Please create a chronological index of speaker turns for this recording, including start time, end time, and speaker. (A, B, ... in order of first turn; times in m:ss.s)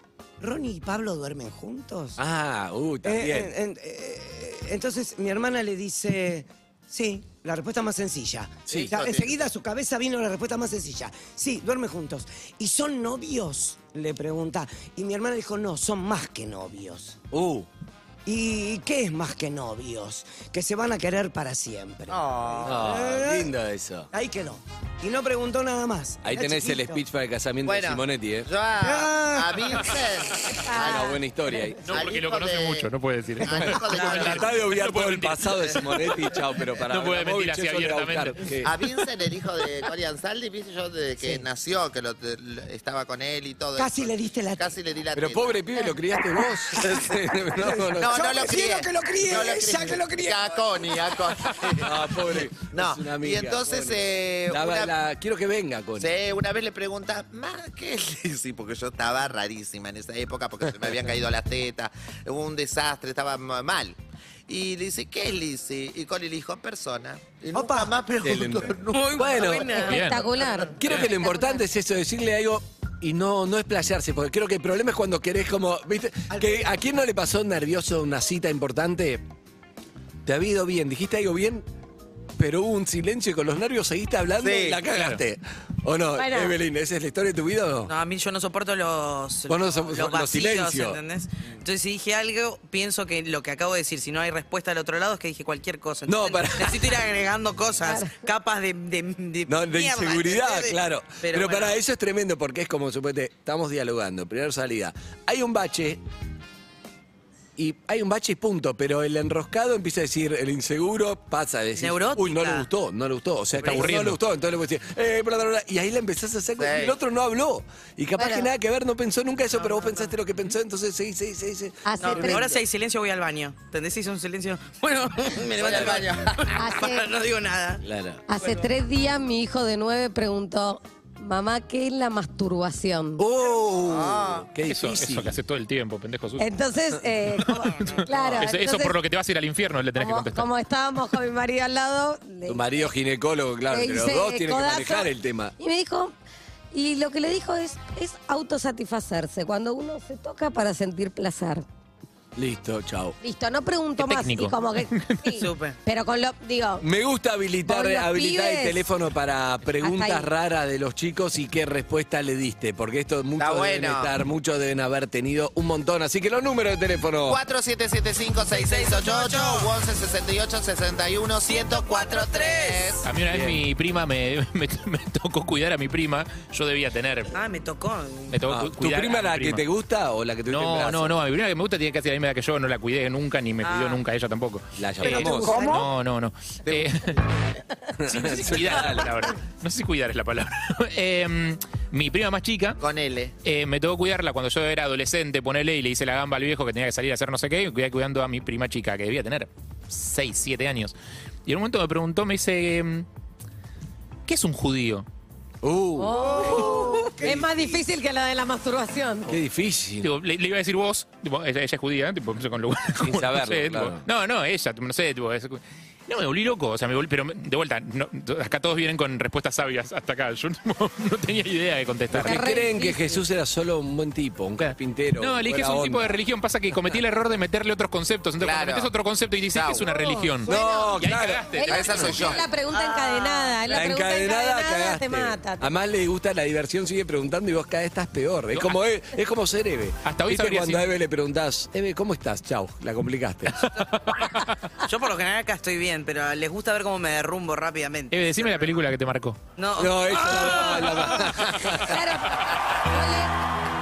0:00.4-0:02.2 A
0:02.2-0:03.5 B
0:03.0-0:17.2 A
0:08.7-0:09.0 B
0:08.7-0:09.3 C
0:17.3-0:17.7 B
0:18.3-0:23.5 A
0:22.1-0:22.8 C
0:22.6-0:24.1 B
0:24.1-0:27.0 A
0:26.2-0:28.5 B
0:27.6-0:31.2 C
0:28.8-0:29.9 A
0:30.6-0:31.2 D
0:30.7-0:31.9 B
0:31.8-0:35.8 E
0:31.9-0:34.8 C
0:33.5-0:38.7 B
0:35.7-0:36.8 C
0:36.9-0:38.5 E
0:38.6-0:45.6 C
0:41.2-0:41.4 A
0:43.8-0:44.8 A
0:45.1-0:48.2 B
0:45.9-0:46.7 A
0:46.8-0:47.2 C
0:47.6-0:51.0 A
0:48.0-0:54.9 C
0:51.8-0:56.1 B
0:56.0-1:04.0 C
1:04.5-1:09.7 C
1:07.5-1:08.0 A
1:08.2-1:09.9 B
1:08.9-1:10.0 F
1:09.7-1:11.6 D
1:09.8-1:10.3 E
1:10.8-1:19.2 B
1:16.3-1:16.7 A
1:20.2-1:21.6 B
1:22.4-1:27.9 B
1:24.4-1:24.9 C
1:25.0-1:25.2 E
1:26.2-1:26.6 D
1:27.9-1:41.8 F
1:29.5-1:31.0 B
1:36.1-1:37.0 B
1:37.8-1:38.1 D
1:39.5-1:46.0 B
1:47.6-2:02.6 B
1:51.8-1:52.7 F
1:53.6-1:54.2 E
1:53.6-1:54.0 F
1:56.6-1:57.0 C
1:58.2-1:58.5 D
1:59.5-2:00.1 F
2:01.8-2:02.5 D
2:02.0-2:07.8 F
2:05.6-2:06.6 C
2:06.5-2:07.1 D
2:07.8-2:08.2 B
2:08.3-2:13.2 D
2:13.2-2:15.4 B
2:13.8-2:14.5 C
2:14.6-2:16.5 E
2:16.4-2:19.0 D
2:17.4-2:20.5 E
2:20.0-2:22.7 D
2:22.5-2:25.5 B
2:23.7-2:26.1 D
2:26.7-2:31.6 D
2:32.4-2:33.2 B
2:33.2-2:36.9 D
2:34.0-2:35.4 E
2:35.4-2:35.8 F
2:36.8-2:47.4 B
2:37.7-2:38.9 D
2:39.8-2:40.3 D
2:43.4-2:44.1 C
2:47.3-2:53.1 C
2:48.5-2:49.7 F
2:51.4-2:53.0 F
2:53.0-2:57.4 E
2:53.3-2:53.6 B
2:57.3-2:58.4 F
2:58.3-2:59.6 E
2:58.5-3:01.2 B
3:00.5-3:07.2 E
3:03.6-3:04.0 F
3:04.8-3:05.6 B
3:05.1-3:05.9 A
3:05.4-3:05.8 C
3:06.7-3:07.4 C
3:08.0-3:09.3 B
3:08.0-3:12.8 E
3:12.8-3:13.4 C
3:13.4-3:20.9 E
3:21.5-3:23.1 E
3:24.3-3:25.1 E
3:25.6-3:26.8 B
3:26.0-3:29.4 D
3:26.1-3:27.9 A
3:29.3-3:30.1 B
3:30.0-3:42.5 E
3:33.0-3:34.0 B
3:42.1-3:46.2 B
3:42.2-3:43.2 D
3:44.6-3:52.4 E
3:48.4-3:48.9 C
3:49.5-3:49.8 C
3:49.8-3:50.6 D
3:50.5-3:51.5 B
3:51.5-3:55.7 D
3:51.6-3:52.5 C
3:52.7-3:53.6 F
3:53.7-4:03.7 B
4:00.0-4:00.9 E
4:03.7-4:04.3 E
4:04.8-4:08.8 F
4:08.1-4:09.4 E
4:09.6-4:11.0 F
4:09.8-4:12.0 B
4:11.7-4:13.3 D